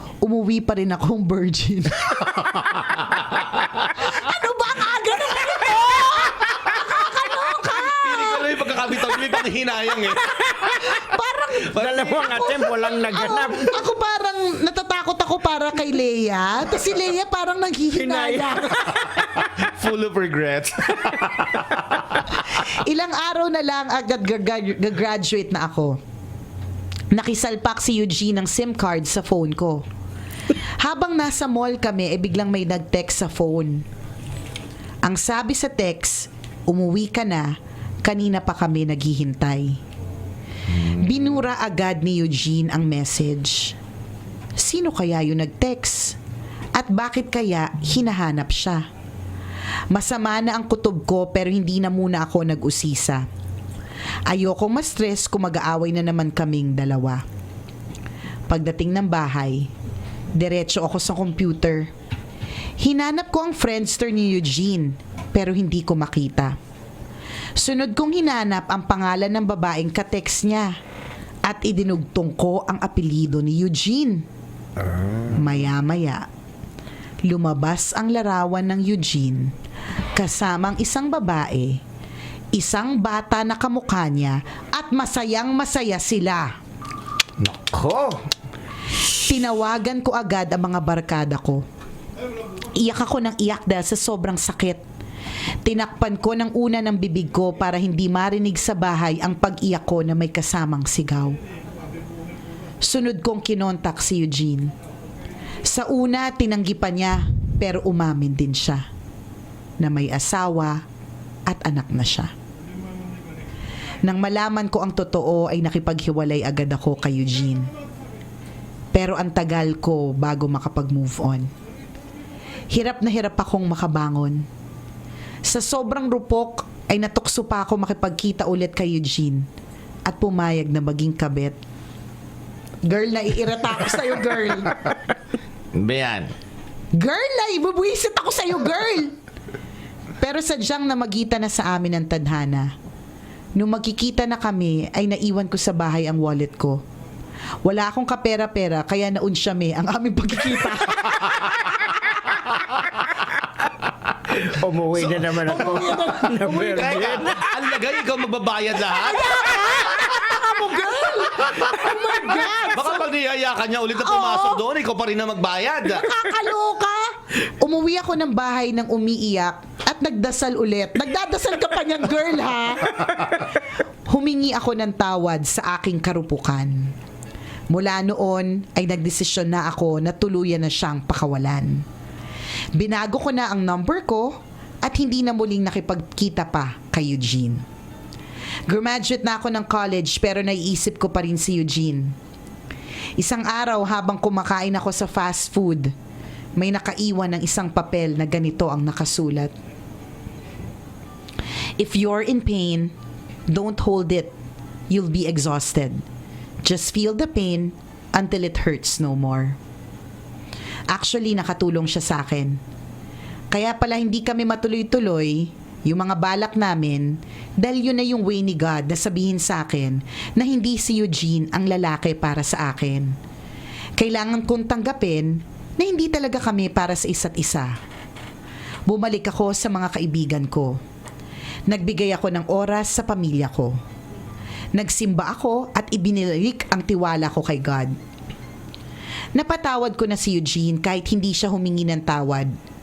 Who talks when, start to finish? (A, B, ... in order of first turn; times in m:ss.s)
0:00.2-0:02.5 A
0:02.4-0:04.0 B
0:03.9-0:09.4 A
0:07.6-0:10.2 B
0:10.2-0:19.2 A
0:11.7-0:12.1 B
0:11.7-0:13.8 C
0:17.9-0:19.0 C
0:19.5-0:22.3 B
0:22.7-0:26.0 A
0:27.1-0:29.8 A
0:30.8-0:33.8 A
0:35.0-0:39.8 A
0:40.7-0:41.2 B
0:41.0-0:43.7 A
0:44.6-0:46.2 A
0:46.7-0:48.8 A
0:49.9-0:53.2 A
0:54.3-0:57.2 A
0:58.5-0:59.7 A
1:00.4-1:01.9 A
1:02.8-1:06.6 A
1:07.6-1:10.8 A
1:11.4-1:14.2 A
1:14.8-1:15.5 B
1:15.3-1:16.2 A
1:17.2-1:19.5 A
1:20.2-1:21.8 A
1:22.6-1:26.5 A
1:27.4-1:28.2 B
1:29.2-1:31.6 A
1:32.8-1:34.8 A
1:35.6-1:41.4 A
1:42.8-1:44.7 A
1:45.6-1:48.8 A
1:49.8-1:50.8 A
1:51.5-1:52.3 A
1:54.0-1:57.7 A
1:58.9-2:01.5 A
2:02.7-2:04.4 A
2:05.4-2:09.4 A
2:10.0-2:11.6 A
2:12.8-2:14.9 A
2:15.7-2:16.3 B
2:17.0-2:19.1 A
2:20.2-2:22.7 A
2:23.6-2:26.8 A
2:27.6-2:31.7 A
2:34.4-2:37.4 C
2:35.2-2:37.2 A
2:36.7-2:39.7 B
2:38.9-2:43.1 A
2:42.7-2:46.1 B
2:44.0-2:44.6 A
2:45.9-2:53.4 A
2:54.1-2:56.9 A
2:57.7-3:01.8 A
3:02.7-3:07.6 A
3:08.7-3:12.1 A
3:13.2-3:15.9 A
3:16.6-3:19.5 A
3:21.8-3:22.9 A
3:23.5-3:24.3 A
3:24.9-3:26.0 A
3:26.6-3:29.6 A
3:30.9-3:32.6 A
3:33.5-3:43.1 A
3:44.0-3:47.7 A
3:48.9-3:50.8 A
3:51.7-3:53.8 A
3:54.7-3:58.0 A
3:59.3-4:02.5 A